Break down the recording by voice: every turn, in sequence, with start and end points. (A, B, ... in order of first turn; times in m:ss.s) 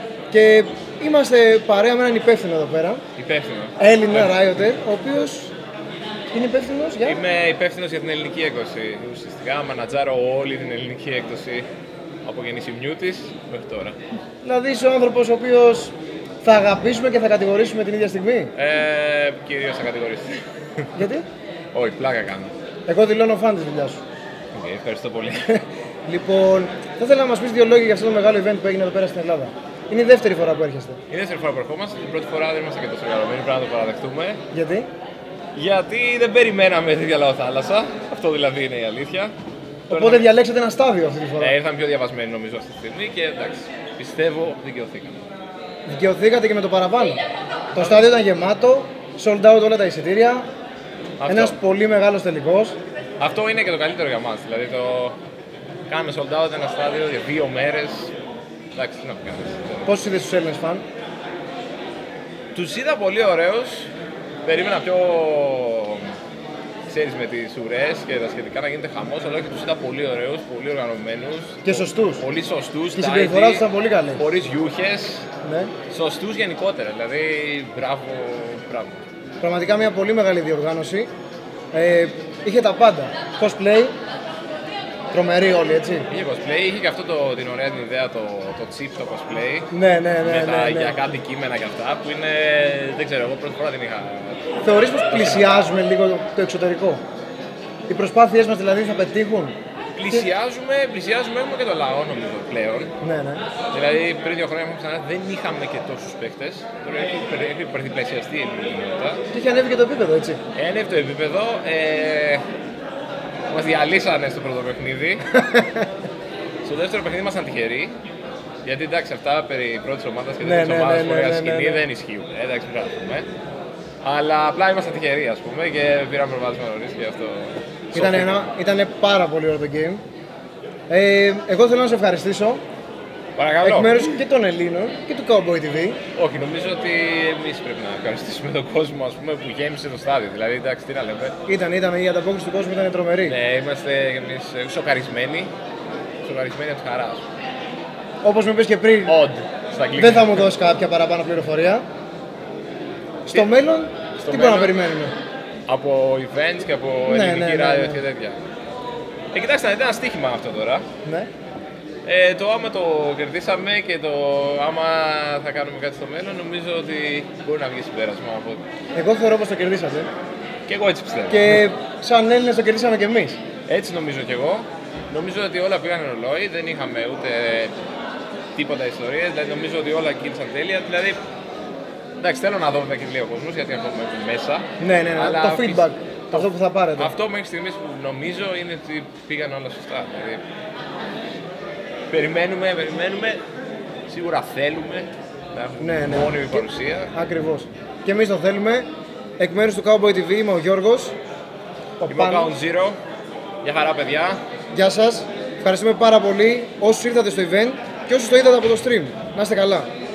0:00.3-0:03.0 A
0:03.2-0:04.4 B
0:03.8-0:05.5 A
0:06.3-0:07.2 A
0:07.0-0:11.7 B
0:12.2-0:14.0 B
0:14.4-0:18.5 A
0:18.6-0:21.0 B
0:21.0-0:21.3 A
0:21.7-0:22.5 B
0:22.9-0:24.0 A
0:24.5-0:25.6 B
0:26.1-0:31.0 A
0:31.1-0:34.4 B
0:34.5-0:34.9 A
0:35.6-0:39.3 B
0:39.9-0:40.3 B
0:39.9-0:41.6 A
0:41.4-0:45.2 B
0:45.9-0:47.2 A
0:47.7-0:50.5 A
0:47.8-0:48.0 B
0:51.2-0:51.6 B
0:51.3-0:52.8 A
0:53.2-0:55.2 B
0:55.9-0:58.1 B
0:58.8-0:59.9 B
0:59.9-1:00.8 A
1:02.5-1:03.9 B
1:04.4-1:06.1 B
1:06.9-1:15.3 B
1:11.6-1:12.2 A
1:13.0-1:14.2 A
1:15.4-1:15.7 A
1:15.9-1:19.0 B
1:19.4-1:21.1 A
1:21.7-1:23.9 A
1:25.1-1:26.1 A
1:26.1-1:34.4 B
1:29.7-1:31.0 A
1:34.6-1:37.0 A
1:35.0-1:35.7 B
1:37.9-1:39.6 A
1:40.0-1:42.9 B
1:43.0-1:43.4 A
1:43.7-1:49.2 B
1:49.3-1:50.4 A
1:50.6-1:52.4 B
1:53.5-1:55.3 B
1:55.4-1:55.9 A
1:56.6-1:58.0 B
1:58.6-2:03.3 B
2:00.4-2:01.8 A
2:04.0-2:08.6 B
2:07.9-2:10.0 A
2:10.9-2:12.6 A
2:13.4-2:14.1 B
2:13.6-2:16.0 A
2:16.2-2:21.4 B
2:21.5-2:23.4 A
2:23.2-2:25.5 B
2:26.2-2:27.2 B
2:28.2-2:29.2 A
2:29.1-2:30.5 B
2:30.0-2:31.8 A
2:33.3-2:35.2 A
2:34.2-2:34.8 B
2:35.7-2:38.4 B
2:37.1-2:38.0 A
2:39.3-2:40.8 B
2:41.0-2:41.3 A
2:42.0-2:48.6 B
2:49.0-2:50.1 A
2:50.7-2:51.6 B
2:51.3-2:53.4 A
2:53.7-2:57.8 B
2:58.6-3:01.2 B
3:02.2-3:10.4 B
3:04.8-3:07.1 A
3:12.1-3:13.4 B
3:14.1-3:17.1 B
3:15.8-3:18.9 A
3:19.4-3:21.2 A
3:22.0-3:22.5 A
3:22.1-3:23.0 B
3:23.6-3:24.4 B
3:24.7-3:29.9 A